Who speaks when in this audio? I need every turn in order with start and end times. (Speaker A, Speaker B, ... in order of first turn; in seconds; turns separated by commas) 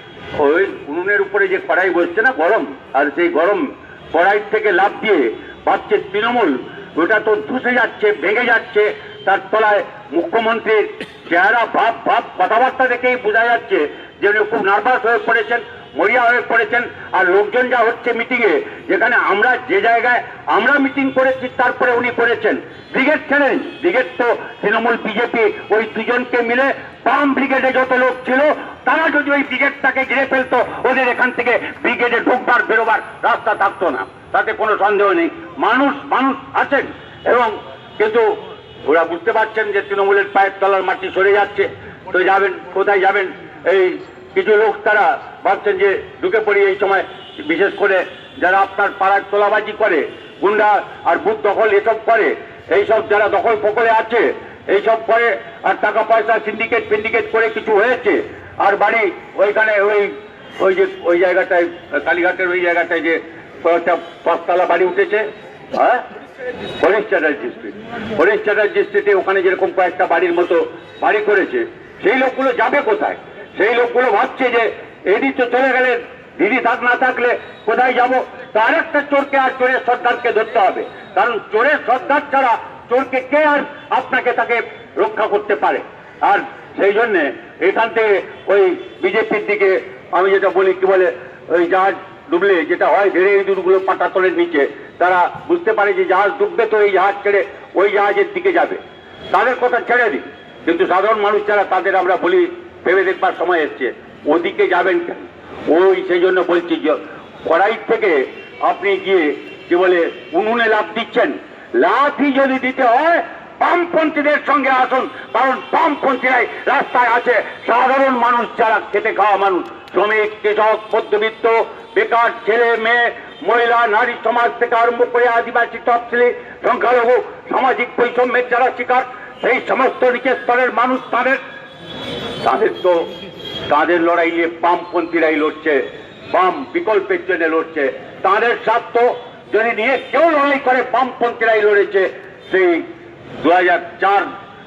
Speaker A: 0.4-66.0, Speaker A: 66.8-131.4, Speaker A: 132.4-133.1, Speaker A: 133.7-142.9, Speaker A: 143.4-144.3